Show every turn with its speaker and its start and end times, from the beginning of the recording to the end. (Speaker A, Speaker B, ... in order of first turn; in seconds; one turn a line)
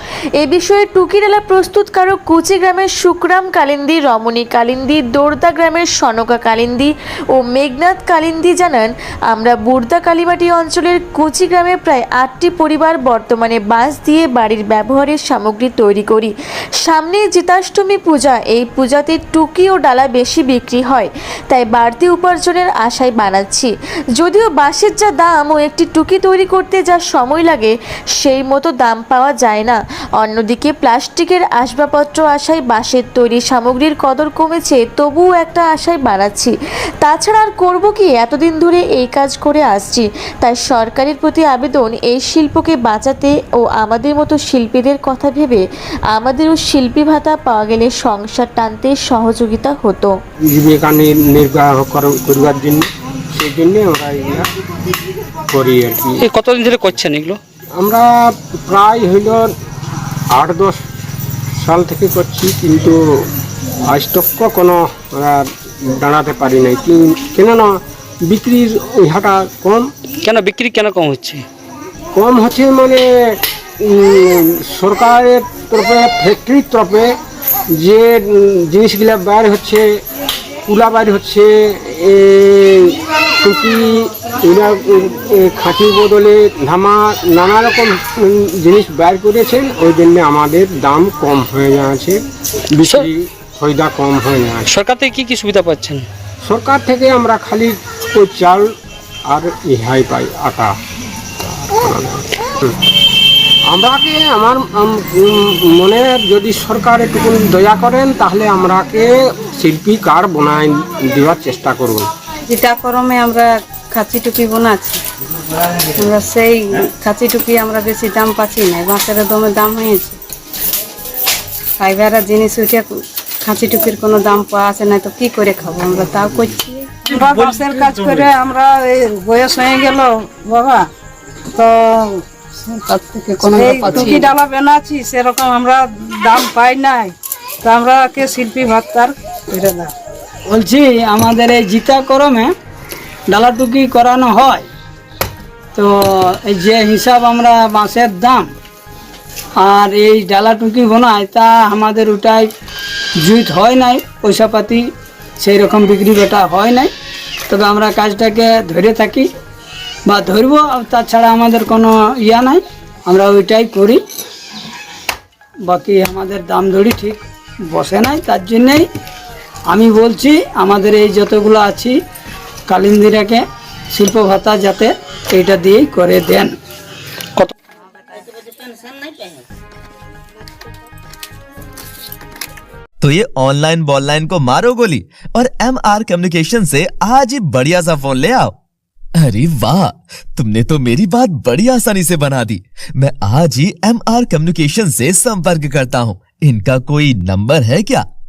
Speaker A: 0.4-50.1
Speaker B: 50.5-54.5
Speaker B: 55.5-56.3
Speaker C: 56.2-57.4
Speaker B: 57.8-59.5
Speaker B: 60.3-60.8
Speaker B: 61.6-63.0
Speaker B: 63.9-69.9
Speaker C: 70.2-71.4
Speaker B: 72.1-77.1
Speaker B: 77.8-79.8
Speaker B: 80.7-92.2
Speaker B: 92.7-94.7
Speaker C: 94.7-96.1
Speaker B: 96.4-98.7
Speaker B: 99.3-100.7
Speaker B: 101.4-102.8
Speaker B: 103.7-112.1
Speaker D: 112.5-115.0
Speaker D: 116.0-120.2
Speaker D: 121.8-127.0
Speaker E: 127.1-130.9
Speaker E: 131.5-132.9
Speaker F: 133.0-134.3
Speaker E: 133.4-139.9
Speaker D: 133.8-134.2
Speaker F: 140.5-142.5
Speaker F: 143.3-144.7
Speaker F: 145.8-148.5
Speaker F: 149.6-152.5
Speaker F: 153.2-154.9
Speaker F: 155.4-156.9
Speaker F: 157.5-159.3
Speaker F: 160.1-164.0
Speaker F: 165.7-168.8
Speaker F: 169.7-172.0
Speaker F: 172.7-176.5
Speaker G: 183.0-188.6
Speaker G: 189.2-198.1